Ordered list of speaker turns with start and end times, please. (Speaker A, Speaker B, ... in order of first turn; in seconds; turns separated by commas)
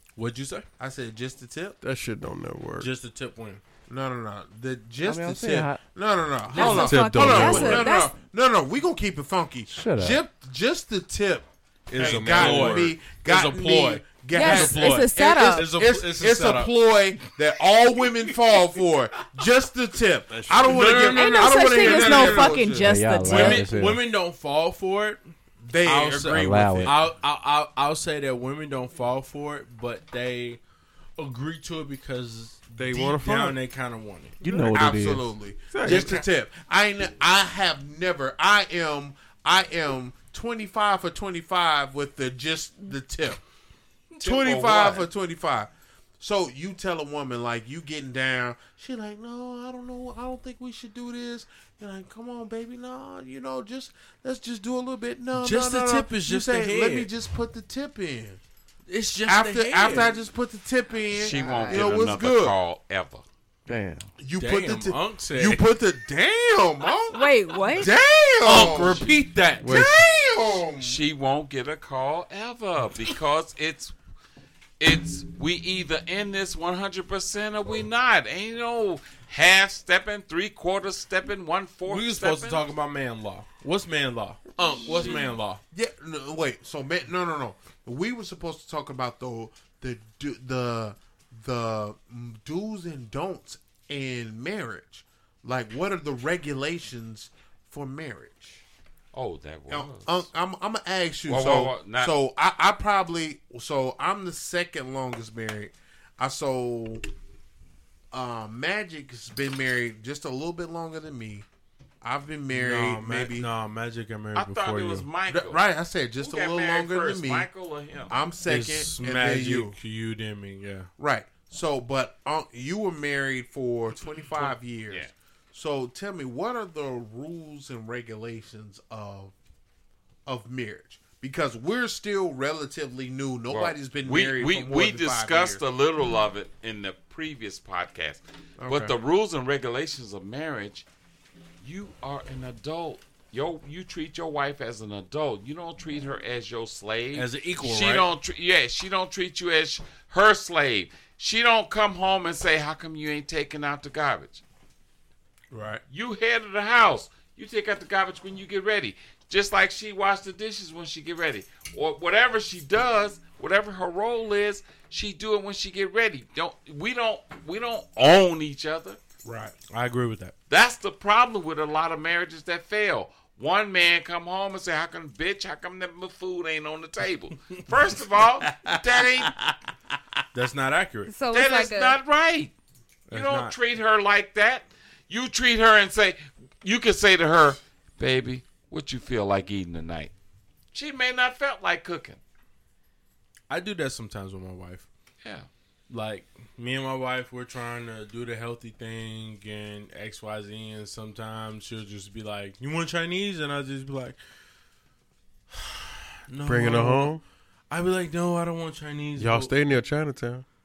Speaker A: 0.2-0.7, Speaker B: 0.8-1.8, Speaker C: 1.8-2.9, Speaker A: 2.8-3.6, Speaker B: 3.9-22.9, Speaker D: 5.0-5.8, Speaker E: 6.5-8.1, Speaker C: 6.6-8.0, Speaker D: 9.7-10.2, Speaker C: 11.9-13.0, Speaker A: 12.0-16.7, Speaker E: 14.3-15.7, Speaker C: 20.3-21.1, Speaker A: 20.6-22.6, Speaker E: 21.1-23.7, Speaker D: 22.8-24.0, Speaker A: 23.2-25.2, Speaker B: 25.6-27.1, Speaker A: 25.8-30.6, Speaker D: 26.4-26.9, Speaker A: 31.2-34.4, Speaker C: 32.8-33.6, Speaker D: 34.4-35.3, Speaker C: 34.5-35.0, Speaker B: 34.7-43.4, Speaker C: 35.7-36.2, Speaker A: 35.8-36.3, Speaker F: 44.1-45.1, Speaker B: 44.2-58.4, Speaker A: 55.3-57.1, Speaker A: 58.9-60.2, Speaker B: 59.3-62.6, Speaker F: 61.1-63.2, Speaker D: 63.7-64.1, Speaker B: 64.2-69.1, Speaker A: 64.4-65.6, Speaker E: 67.1-67.9, Speaker A: 68.4-69.9, Speaker C: 69.6-70.0, Speaker B: 69.6-71.0, Speaker F: 70.7-74.0, Speaker F: 74.8-82.6, Speaker A: 81.9-85.6, Speaker B: 85.7-98.6, Speaker F: 99.1-100.3, Speaker B: 99.7-107.1, Speaker F: 101.3-102.1, Speaker B: 108.1-111.5, Speaker B: 112.0-113.5, Speaker A: 112.5-115.1, Speaker F: 114.3-115.6, Speaker B: 115.3-117.5, Speaker F: 116.2-118.1, Speaker B: 118.1-119.8, Speaker A: 118.4-120.9, Speaker B: 121.0-129.3, Speaker F: 124.4-125.1, Speaker B: 130.3-135.6, Speaker F: 133.5-140.9, Speaker B: 138.6-138.9, Speaker F: 141.6-154.4, Speaker A: 147.1-148.1, Speaker B: 155.5-155.8, Speaker F: 155.9-169.0, Speaker B: 169.2-169.6, Speaker A: 169.7-170.3, Speaker F: 170.5-179.4, Speaker B: 178.5-179.3, Speaker A: 180.3-181.1, Speaker E: 181.1-182.0, Speaker F: 181.3-182.5, Speaker A: 183.1-183.6, Speaker F: 183.1-190.1, Speaker F: 190.7-192.2, Speaker A: 193.5-194.9, Speaker F: 195.2-195.5, Speaker A: 195.9-204.2, Speaker A: 205.5-207.2, Speaker C: 206.4-207.2, Speaker A: 207.7-209.6, Speaker C: 209.2-210.4